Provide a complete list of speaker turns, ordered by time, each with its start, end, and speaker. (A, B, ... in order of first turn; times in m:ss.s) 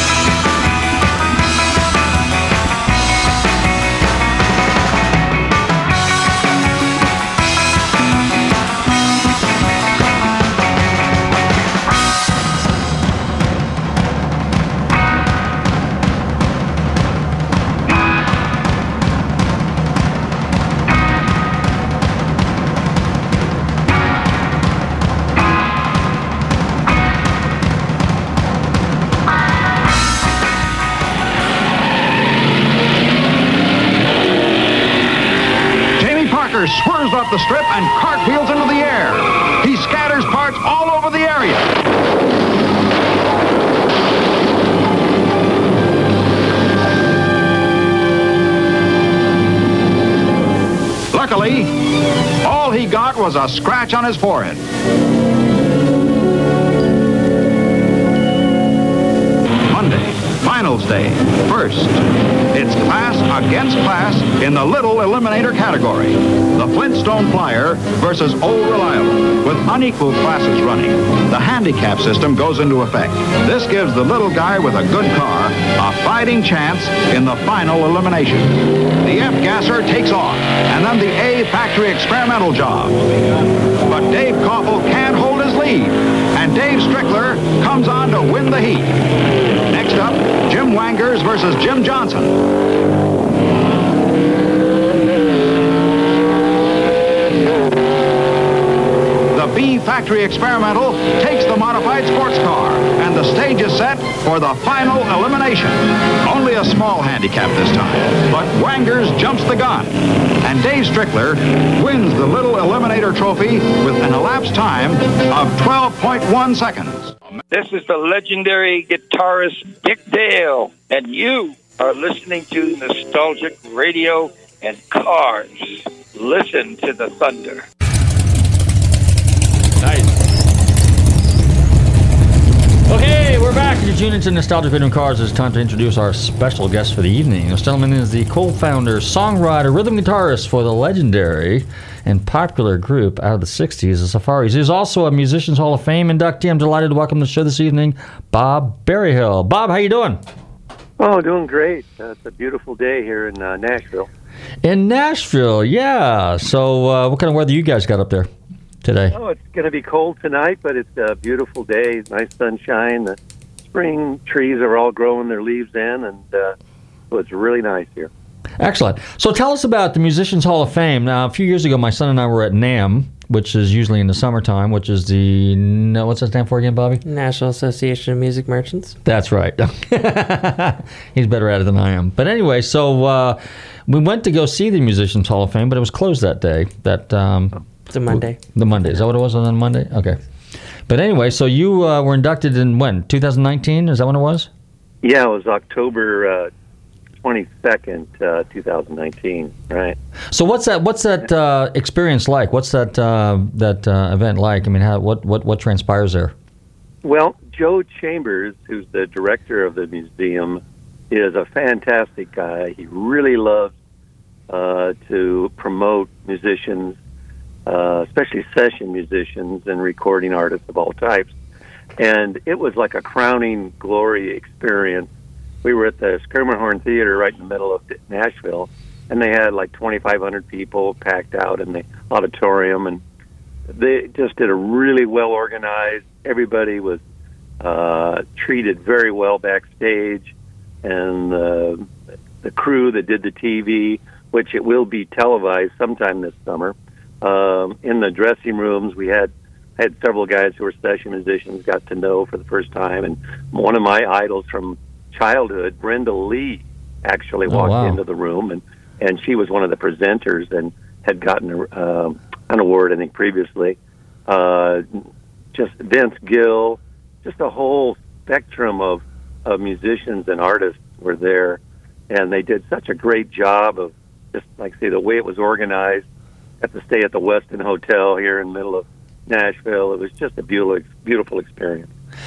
0:36.0-0:41.7 A
0:51.1-0:51.8 A
0:52.4-0:54.6 A
0:59.7-1:23.1 A
1:23.8-1:29.0 A
1:29.6-1:32.4 A
1:39.3-1:57.2 A
1:57.5-2:07.6 B
2:09.8-2:10.2 C
2:12.9-2:30.2 C
2:31.0-2:34.1 D
2:34.6-2:38.3 C
2:38.8-2:39.2 C
2:39.1-2:46.6 D
2:47.1-2:48.1 D
2:48.6-2:57.0 C
2:57.0-2:59.0 E
2:59.0-3:10.2 C
3:07.9-3:08.4 E
3:10.9-3:14.5 C
3:15.0-3:16.5 D
3:17.2-3:20.0 D
3:20.3-3:26.3 C
3:27.0-3:33.7 D
3:34.5-3:37.0 D
3:37.6-3:41.3 D
3:42.0-3:45.1 D
3:45.6-3:53.0 D
3:53.7-3:57.0 D
3:57.6-4:00.3 D
4:00.8-4:01.9 D
4:02.4-4:24.9 D
4:17.5-4:18.0 C
4:25.5-4:31.6 D
4:32.1-4:36.0 D
4:36.6-4:41.9 D